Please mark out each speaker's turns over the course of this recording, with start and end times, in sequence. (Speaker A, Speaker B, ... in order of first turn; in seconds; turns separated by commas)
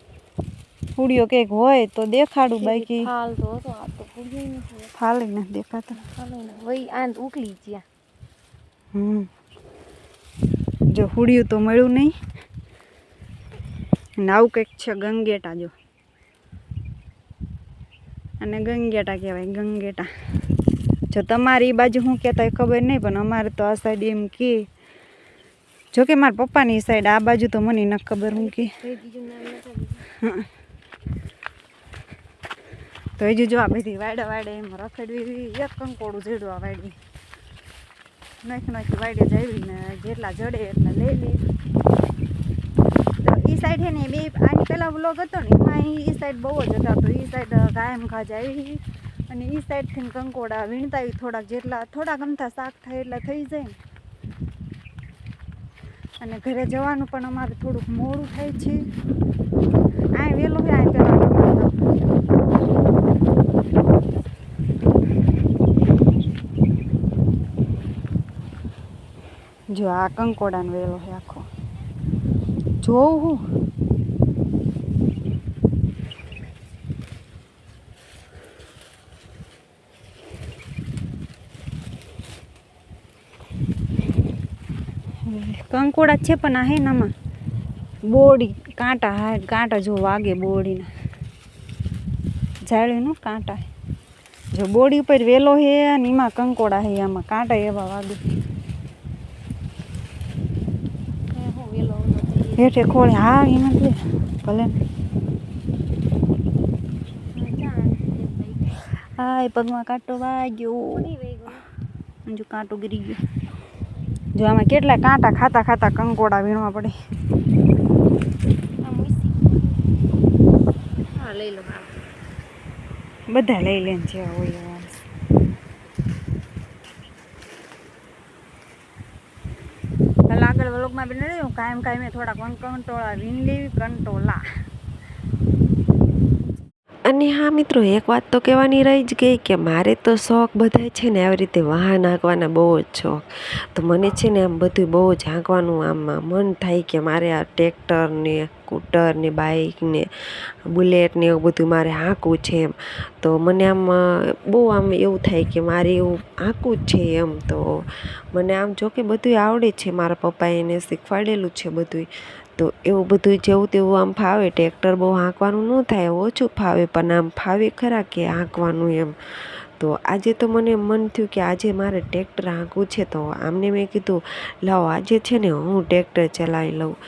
Speaker A: 1.0-3.1, Speaker B: 2.6-4.9, Speaker A: 5.0-6.0, Speaker B: 6.0-7.8, Speaker A: 8.9-9.3, Speaker A: 10.9-12.1, Speaker A: 14.2-15.7, Speaker A: 18.4-20.1, Speaker A: 21.1-24.7, Speaker A: 25.9-28.8, Speaker B: 28.3-30.1, Speaker A: 30.2-30.5, Speaker A: 33.2-37.0, Speaker A: 38.4-41.4, Speaker A: 43.2-53.8, Speaker A: 56.2-58.8, Speaker A: 60.2-61.9, Speaker A: 69.7-71.5, Speaker A: 72.8-73.4, Speaker A: 85.3-87.1, Speaker A: 88.1-90.9, Speaker A: 92.7-93.7, Speaker A: 94.5-98.2, Speaker B: 101.3-102.8, Speaker A: 102.6-104.8, Speaker B: 107.3-108.8, Speaker A: 109.2-111.1, Speaker B: 111.0-111.7, Speaker A: 112.3-113.2, Speaker A: 114.3-116.9, Speaker B: 118.8-119.7, Speaker B: 121.1-121.9, Speaker A: 123.3-125.0, Speaker A: 130.3-134.4, Speaker C: 137.1-143.2, Speaker C: 143.8-150.1, Speaker C: 150.7-157.6, Speaker C: 158.3-162.1, Speaker C: 162.6-169.1, Speaker C: 169.8-176.9